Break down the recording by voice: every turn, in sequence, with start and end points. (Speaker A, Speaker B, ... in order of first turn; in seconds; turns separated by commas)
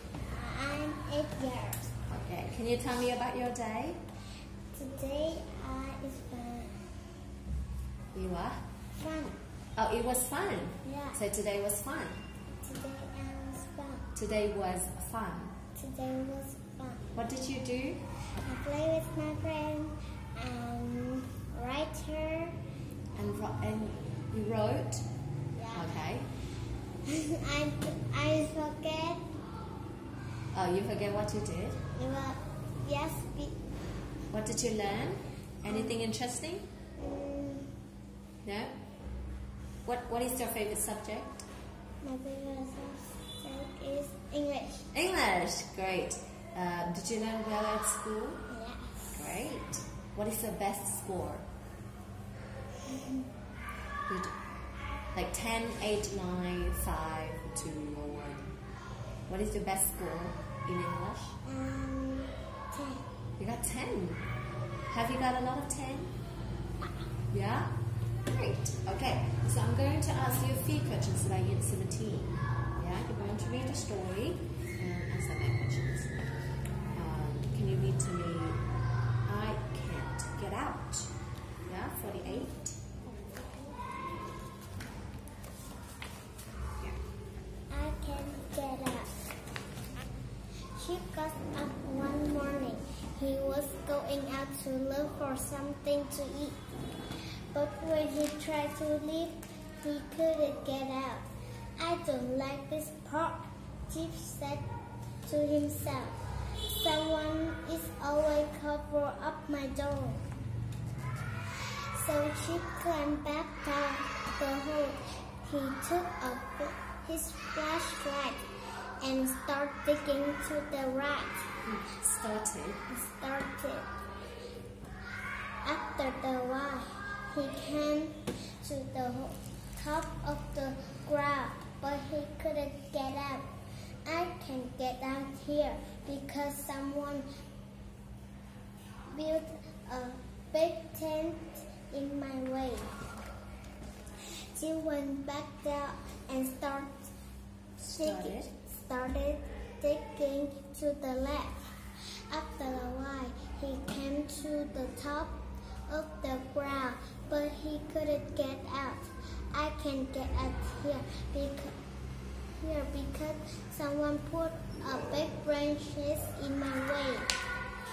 Speaker A: 0.2-1.9, Speaker B: 2.1-4.0, Speaker A: 4.7-6.9, Speaker B: 8.1-8.6, Speaker A: 9.0-9.4, Speaker B: 9.8-12.2, Speaker A: 10.8-11.2, Speaker A: 12.5-14.1, Speaker B: 14.2-15.6, Speaker A: 15.8-17.1, Speaker B: 17.1-18.0, Speaker A: 18.4-22.6, Speaker B: 23.1-25.1, Speaker A: 25.6-26.0, Speaker B: 25.7-26.3, Speaker A: 27.1-29.3, Speaker B: 30.5-31.8, Speaker A: 31.9-33.6, Speaker B: 34.3-36.7, Speaker A: 35.7-36.0, Speaker A: 37.0-37.7, Speaker B: 38.4-38.7, Speaker B: 39.9-41.5, Speaker A: 42.0-44.9, Speaker B: 44.9-48.5, Speaker A: 48.5-49.3, Speaker B: 49.1-51.5, Speaker A: 52.9-53.3, Speaker B: 54.1-54.3, Speaker B: 55.1-58.5, Speaker B: 59.3-61.4, Speaker A: 61.4-63.1, Speaker B: 63.4-64.3, Speaker B: 64.9-66.1, Speaker B: 67.3-67.8, Speaker B: 68.3-76.1, Speaker B: 76.9-78.6, Speaker B: 79.3-81.2, Speaker B: 81.7-82.8, Speaker A: 83.2-83.6, Speaker A: 87.7-89.2, Speaker A: 90.7-96.7, Speaker A: 97.5-101.3, Speaker A: 101.8-104.7, Speaker A: 105.3-110.3, Speaker A: 111.9-118.5, Speaker A: 119.0-121.5, Speaker B: 121.6-122.9, Speaker A: 122.9-123.9, Speaker A: 125.6-133.5, Speaker A: 134.1-137.3, Speaker A: 139.1-142.9, Speaker A: 144.6-147.1, Speaker A: 147.8-151.8, Speaker B: 147.9-148.5, Speaker A: 152.3-161.7, Speaker A: 162.6-167.3